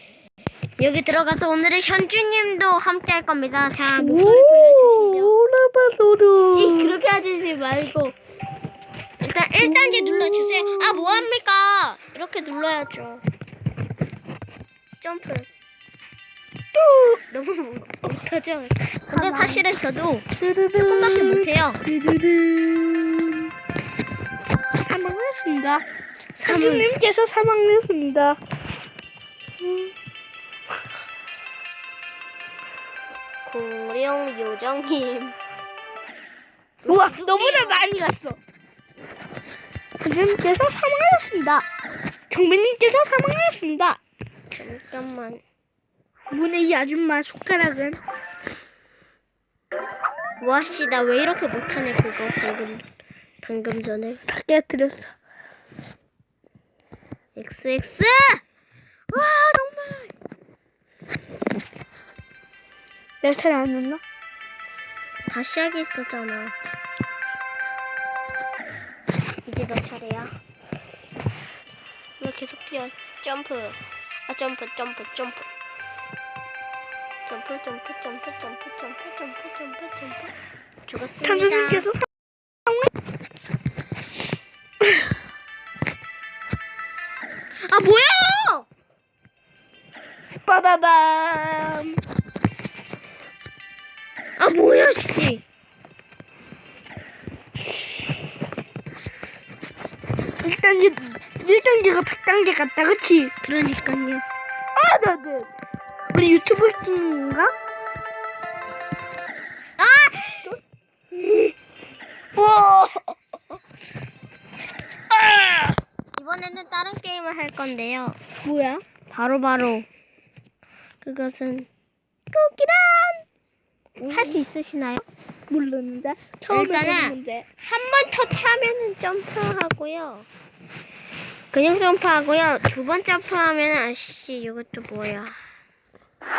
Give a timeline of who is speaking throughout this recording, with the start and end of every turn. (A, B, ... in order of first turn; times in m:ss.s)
0:00.8-0:05.3 A
0:03.9-0:07.0 B
0:06.4-0:08.2 A
0:09.2-0:13.2 A
0:09.6-0:11.3 B
0:15.0-0:15.5 A
0:16.8-0:17.1 B
0:17.1-0:20.2 A
0:19.1-0:19.6 B
0:20.4-0:23.5 B
0:20.8-0:21.8 A
0:24.7-0:25.8 B
0:26.4-0:26.9 A
0:26.4-0:28.4 B
0:33.4-0:35.4 A
0:36.8-0:37.9 A
0:36.8-0:38.4 B
0:40.0-0:41.6 B
0:42.3-0:44.0 B
0:44.5-0:45.4 A
0:46.3-0:48.0 B
0:50.4-0:52.8 A
0:53.4-0:54.2 A
0:54.3-0:55.1 B
0:57.3-0:58.4 A
0:59.1-1:00.1 A
1:03.2-1:04.0 B
1:05.3-1:06.5 A
1:09.4-1:10.3 A
1:12.2-1:15.5 A
1:17.2-1:20.3 A
1:20.9-1:21.9 A
1:21.2-1:22.1 B
1:27.6-1:28.7 A
1:30.4-1:32.0 B
1:34.4-1:35.4 A
1:40.4-1:43.3 B
1:43.4-1:44.2 A
1:44.8-1:45.5 B
1:46.1-1:47.5 B
1:49.8-1:50.5 A
1:51.2-1:51.5 B
1:52.4-1:53.2 B
1:55.2-1:55.7 B
1:56.2-1:58.2 A
1:58.4-1:58.8 B
1:59.1-1:59.8 A
2:01.0-2:01.7 A
2:02.3-2:03.2 B
2:04.0-2:05.0 A
2:04.0-2:04.4 B
2:05.5-2:07.4 B
2:06.5-2:10.3 A
2:11.5-2:15.4 A